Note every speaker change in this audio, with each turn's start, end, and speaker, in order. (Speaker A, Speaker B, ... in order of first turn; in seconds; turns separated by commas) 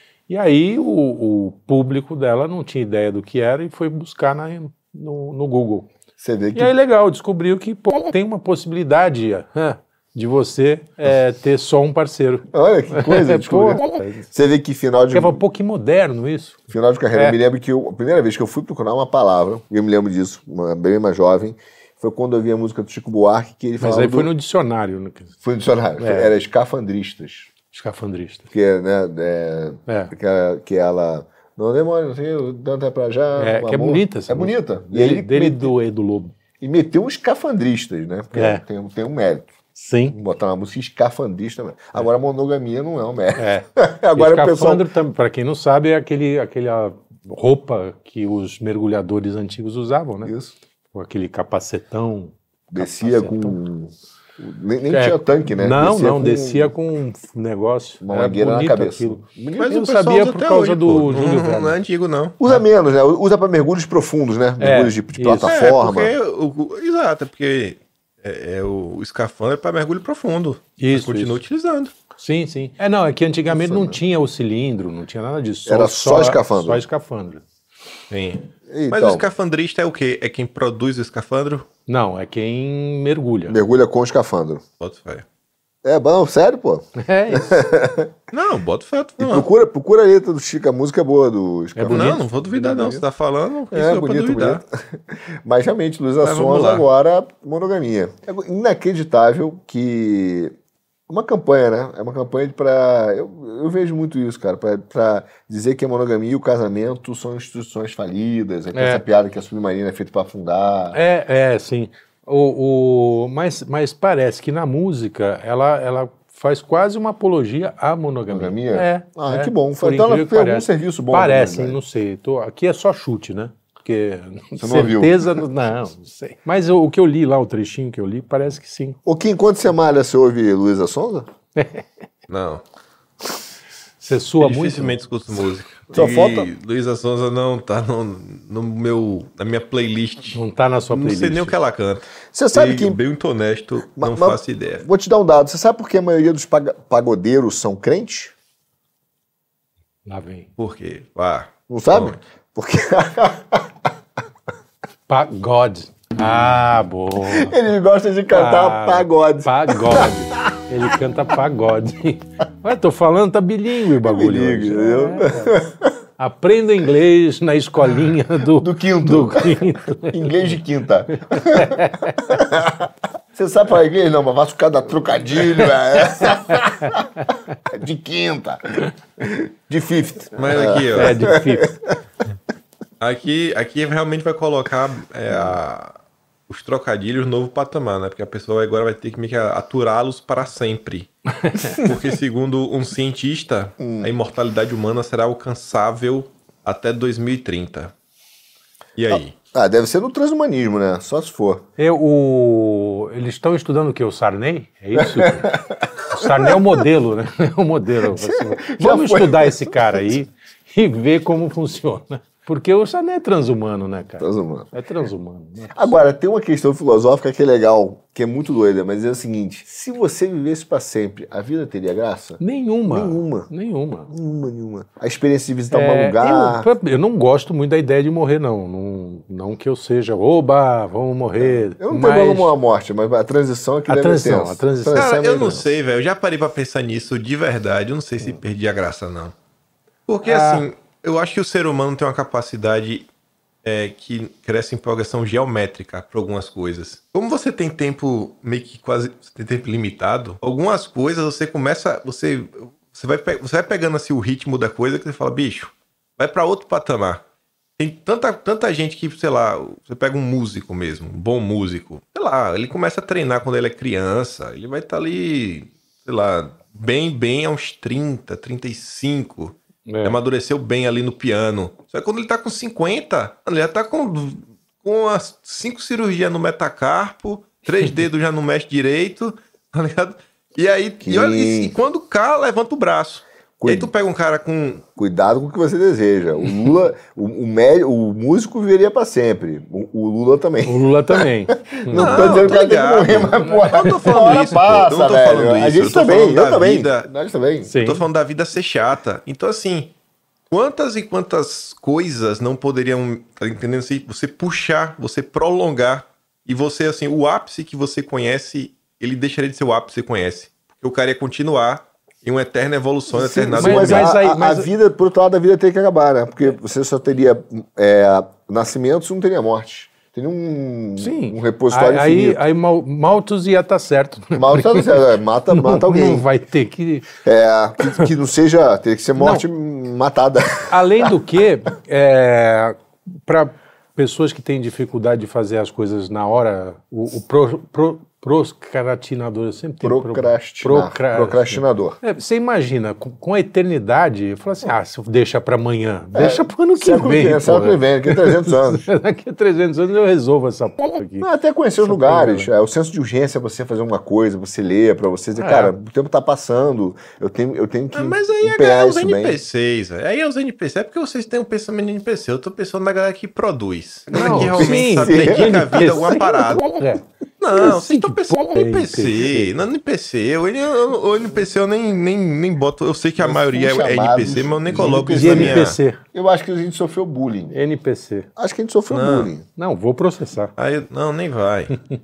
Speaker A: 0.3-5.9, Speaker B: 6.2-6.7, Speaker A: 6.5-14.3, Speaker B: 12.5-15.4, Speaker A: 15.1-16.6, Speaker B: 16.7-24.3, Speaker A: 17.1-17.4, Speaker A: 23.8-25.3, Speaker B: 25.4-27.5, Speaker A: 26.0-26.3, Speaker A: 27.7-28.4, Speaker B: 28.5-35.7, Speaker A: 29.9-30.1, Speaker A: 33.4-36.3, Speaker B: 36.6-39.5, Speaker A: 38.3-38.6, Speaker A: 39.7-40.2, Speaker B: 40.1-44.9, Speaker A: 43.4-50.3, Speaker B: 50.2-50.5, Speaker A: 50.9-53.6, Speaker B: 52.7-56.7, Speaker A: 54.9-61.8, Speaker B: 58.0-59.8, Speaker C: 59.6-62.4, Speaker B: 62.4-66.1, Speaker A: 64.6-65.6, Speaker C: 65.4-71.9, Speaker A: 70.8-71.4, Speaker A: 72.2-77.4, Speaker B: 73.5-74.0, Speaker B: 75.7-76.8, Speaker C: 78.1-81.7, Speaker B: 78.7-79.2, Speaker A: 81.9-83.6, Speaker B: 83.5-84.6, Speaker C: 84.8-85.2, Speaker B: 85.8-88.1, Speaker A: 87.0-87.6, Speaker C: 88.3-89.5, Speaker B: 89.2-93.0, Speaker A: 91.8-92.9, Speaker C: 91.9-94.6, Speaker B: 93.7-100.5, Speaker C: 96.2-96.9, Speaker B: 101.1-111.0, Speaker A: 108.7-109.0, Speaker A: 110.9-129.0, Speaker B: 118.3-121.8, Speaker B: 124.6-125.3, Speaker B: 129.1-131.3, Speaker A: 131.6-131.8, Speaker C: 132.3-132.6, Speaker A: 134.0-135.0, Speaker C: 134.4-144.8, Speaker B: 135.9-136.5, Speaker A: 140.3-141.6, Speaker B: 142.3-143.0, Speaker B: 143.9-148.3, Speaker A: 150.1-150.5, Speaker C: 150.6-152.2, Speaker B: 151.7-153.7, Speaker A: 155.1-157.6, Speaker B: 157.2-160.1, Speaker A: 158.3-165.6, Speaker B: 164.0-165.9, Speaker A: 166.2-170.4, Speaker B: 168.5-177.1, Speaker A: 171.3-172.2, Speaker A: 176.1-176.9, Speaker B: 177.7-182.0, Speaker C: 180.3-181.3, Speaker A: 180.9-181.7, Speaker C: 183.0-185.9, Speaker B: 185.3-185.6, Speaker C: 186.5-191.1, Speaker A: 191.4-191.8, Speaker C: 191.6-197.9, Speaker B: 193.8-194.1, Speaker C: 199.0-199.3, Speaker B: 199.1-201.6, Speaker A: 201.8-216.0, Speaker B: 204.9-206.8, Speaker B: 208.1-210.1, Speaker B: 214.2-214.7, Speaker B: 215.7-223.5, Speaker A: 222.4-224.1, Speaker B: 224.1-226.7, Speaker A: 225.7-232.5, Speaker B: 231.4-235.7, Speaker A: 233.9-235.1, Speaker C: 234.9-239.3, Speaker C: 240.1-243.1, Speaker A: 240.2-240.7, Speaker C: 243.6-257.2, Speaker C: 257.8-284.8, Speaker A: 269.9-270.2, Speaker B: 281.0-281.7, Speaker B: 283.6-283.9, Speaker B: 284.9-297.7, Speaker A: 290.6-292.4, Speaker C: 291.9-297.1, Speaker A: 293.6-294.4, Speaker A: 297.7-298.1, Speaker C: 297.8-299.9, Speaker C: 300.5-314.1, Speaker B: 313.1-322.4, Speaker A: 313.5-314.7, Speaker A: 321.0-327.1, Speaker B: 324.3-326.3, Speaker B: 327.2-331.1, Speaker A: 329.2-329.4, Speaker A: 330.7-351.3, Speaker B: 339.8-342.0, Speaker B: 346.1-348.9, Speaker B: 351.2-359.4, Speaker A: 351.8-352.5, Speaker A: 355.4-355.7, Speaker C: 357.9-366.7, Speaker A: 364.1-369.5, Speaker B: 364.1-365.8, Speaker C: 367.4-375.8, Speaker B: 373.2-377.6, Speaker A: 375.1-376.0, Speaker A: 377.5-378.3, Speaker B: 378.4-379.4, Speaker C: 378.9-379.3, Speaker A: 379.6-380.5, Speaker C: 380.6-381.8